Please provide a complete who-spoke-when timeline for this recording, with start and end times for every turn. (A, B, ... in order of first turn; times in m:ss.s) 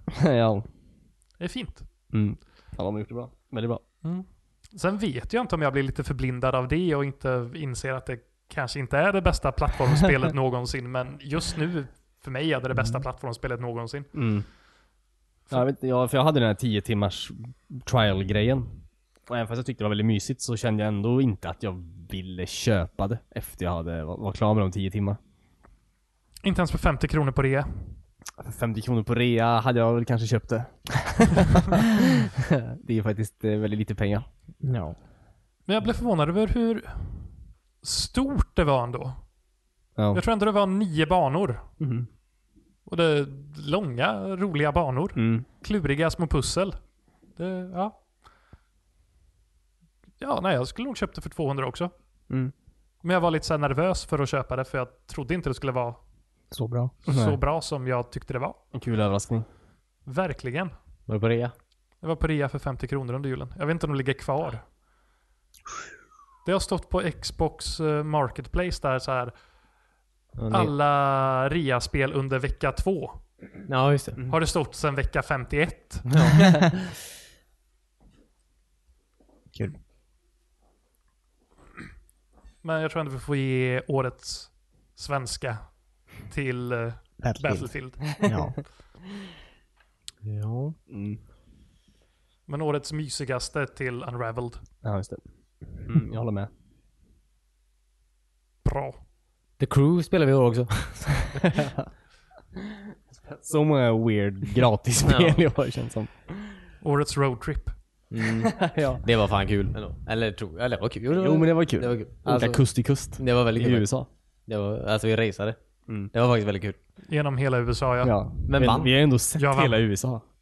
0:00.1-0:00.7 A
0:01.4-0:01.9 B
0:02.1-0:03.8 A
0:04.0-0:14.1 B
0:14.1-0:14.5 A
0:15.5-0:18.7 A
0:19.3-0:25.2 A
0:26.4-0:28.0 B
0:28.4-0:34.3 A
0:34.6-0:35.0 C
0:35.7-0:39.2 B
0:40.0-0:40.2 A
0:40.1-0:41.6 B
0:41.8-0:42.1 A
0:42.9-0:46.8 B
0:45.2-0:45.4 A
0:47.3-0:48.0 B
0:50.2-0:51.9 B
0:53.0-0:56.0 B
0:56.5-0:56.9 C
0:57.0-0:58.6 B
0:57.1-0:57.4 A
0:58.7-0:59.5 A
1:00.0-1:00.7 B
1:01.1-1:01.5 D
1:02.0-1:04.7 B
1:06.4-1:09.3 B
1:10.4-1:10.7 D
1:10.5-1:13.2 B
1:13.7-1:14.3 D
1:14.3-1:16.5 B
1:16.1-1:16.6 D
1:22.6-1:28.3 B
1:27.2-1:28.6 C
1:30.2-1:30.8 D
1:30.9-1:31.2 A
1:32.5-1:34.6 B
1:34.8-1:36.5 A
1:38.6-1:39.0 B
1:39.6-1:41.4 D
1:41.5-1:41.9 A
1:43.1-1:46.3 A
1:45.0-1:45.4 D
1:46.8-1:47.7 B
1:48.1-1:53.9 D
1:48.4-1:49.0 A
1:51.1-1:54.1 A
1:54.5-1:56.8 D
1:57.1-1:58.2 B
1:58.0-2:00.2 A
1:58.5-1:58.9 D
1:59.4-1:59.8 B